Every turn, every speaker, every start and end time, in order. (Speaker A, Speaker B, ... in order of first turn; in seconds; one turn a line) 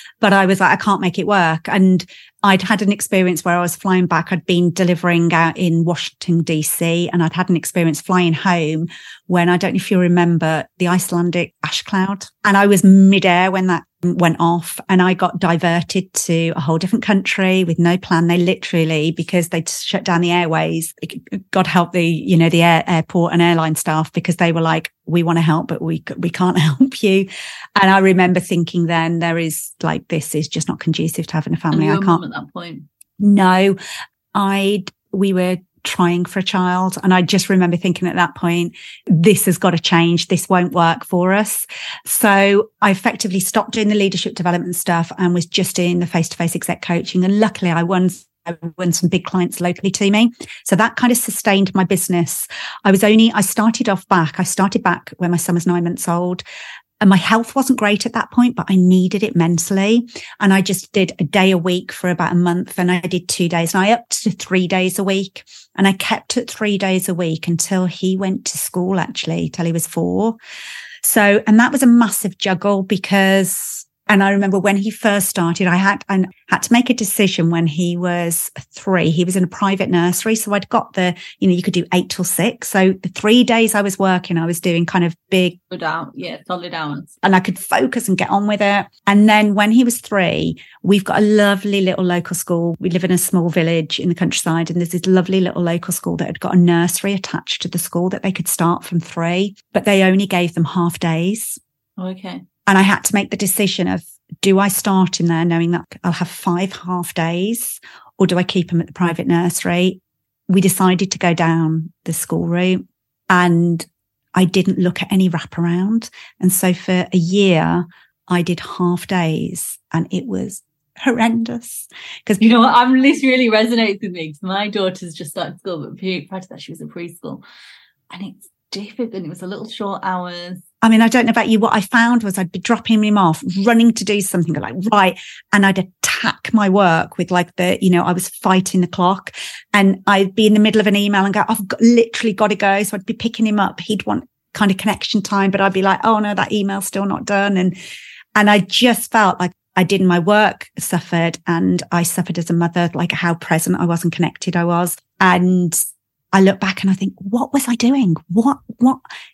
Speaker A: 0.2-32.2
Speaker B: 31.7-32.9
Speaker A: 33.2-33.8
Speaker A: 34.3-56.4
Speaker A: 57.0-70.4
Speaker A: 71.0-85.6
Speaker B: 85.7-87.1
Speaker A: 87.2-101.6
Speaker B: 102.0-102.4
Speaker A: 102.7-122.4
Speaker B: 122.4-127.4
Speaker B: 128.1-130.6
Speaker A: 130.8-147.8
Speaker A: 148.4-155.8
Speaker A: 156.3-159.0